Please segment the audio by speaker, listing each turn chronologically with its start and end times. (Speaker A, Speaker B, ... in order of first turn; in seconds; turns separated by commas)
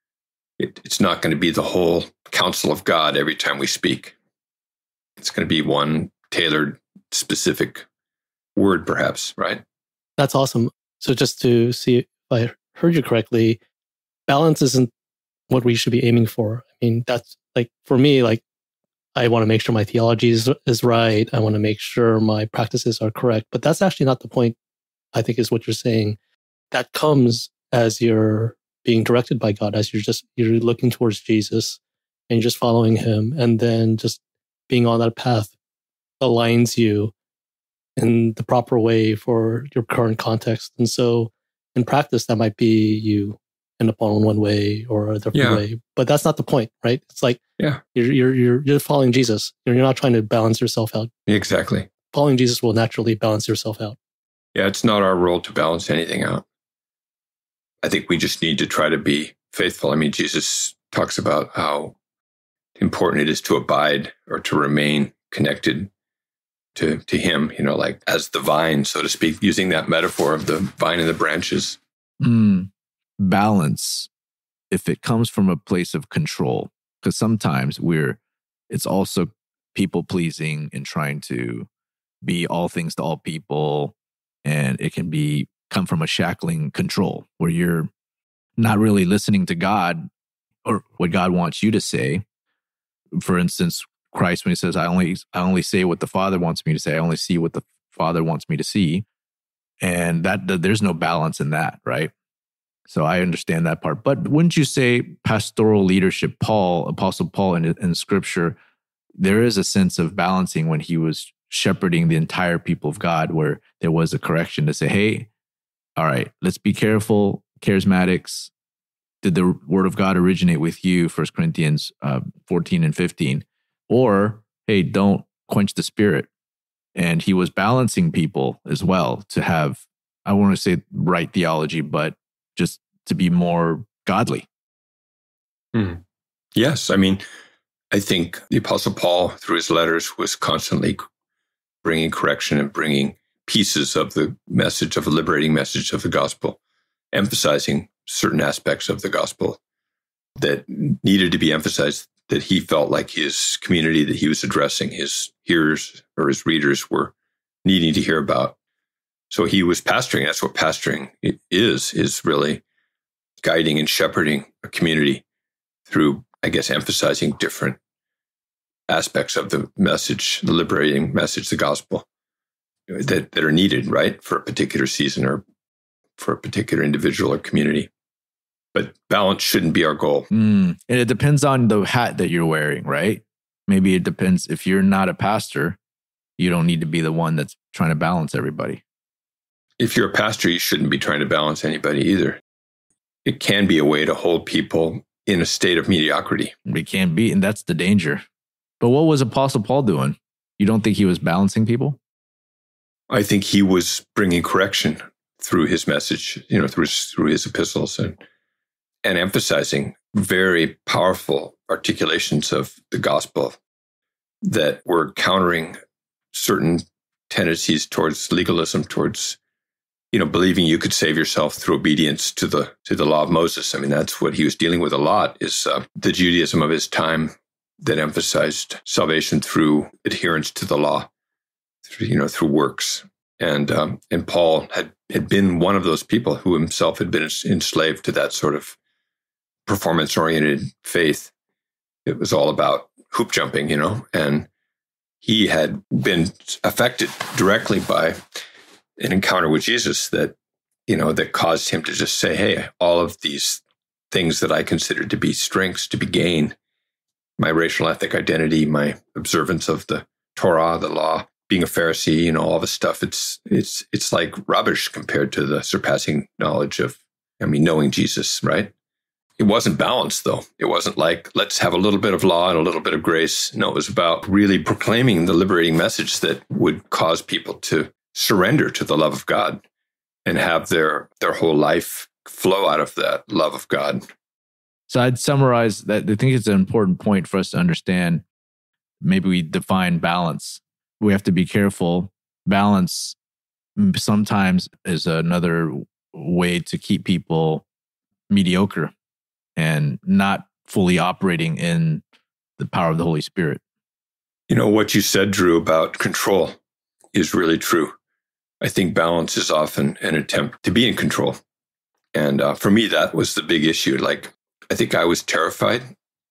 Speaker A: 0.6-4.2, Speaker A: 5.2-7.8, Speaker A: 8.6-9.6, Speaker B: 10.2-13.6, Speaker B: 14.3-14.9, Speaker B: 15.5-18.4, Speaker B: 19.1-24.6, Speaker B: 25.1-26.2, Speaker B: 26.7-35.5, Speaker B: 36.2-37.1, Speaker B: 38.0-47.4, Speaker A: 45.3-45.6, Speaker B: 48.0-51.1, Speaker A: 51.3-51.9, Speaker B: 52.1-54.0, Speaker A: 54.5-56.5, Speaker A: 57.8-62.0, Speaker A: 62.8-65.9, Speaker A: 66.8-71.8, Speaker C: 72.2-74.1, Speaker C: 74.7-78.2, Speaker C: 78.7-81.7, Speaker C: 82.2-87.9, Speaker C: 88.6-90.1, Speaker C: 90.7-92.2, Speaker C: 93.2-99.1, Speaker C: 99.8-102.1, Speaker C: 102.9-108.6, Speaker C: 109.2-115.3, Speaker C: 116.0-118.5, Speaker C: 119.2-126.3, Speaker C: 127.0-134.5, Speaker A: 135.7-136.0, Speaker A: 136.6-137.2, Speaker A: 137.9-141.0, Speaker A: 141.8-146.6, Speaker A: 147.1-149.6, Speaker A: 150.4-157.1, Speaker A: 157.6-158.6, Speaker A: 159.3-162.6, Speaker A: 163.4-165.2, Speaker A: 165.9-167.8, Speaker A: 168.9-172.1, Speaker A: 172.9-175.4, Speaker A: 176.2-177.9, Speaker A: 178.8-180.3, Speaker C: 180.3-185.8, Speaker C: 186.4-188.8, Speaker A: 189.8-192.4, Speaker A: 193.2-196.5, Speaker C: 196.7-198.2, Speaker C: 198.8-202.0, Speaker A: 203.1-208.2, Speaker A: 209.0-213.6, Speaker A: 214.4-215.8, Speaker A: 216.3-219.4, Speaker A: 220.1-231.1, Speaker A: 231.9-238.8, Speaker A: 239.7-241.3, Speaker A: 242.1-244.5, Speaker A: 245.2-248.2, Speaker A: 249.0-250.4, Speaker A: 250.9-256.6, Speaker A: 257.4-268.7, Speaker A: 269.4-279.6, Speaker A: 280.2-284.0, Speaker C: 284.9-288.2, Speaker C: 289.0-293.2, Speaker C: 293.8-297.6, Speaker C: 298.3-298.9, Speaker C: 299.6-302.0, Speaker C: 302.6-303.6, Speaker A: 304.5-306.6, Speaker A: 307.1-307.9, Speaker A: 308.6-311.4, Speaker A: 312.1-315.9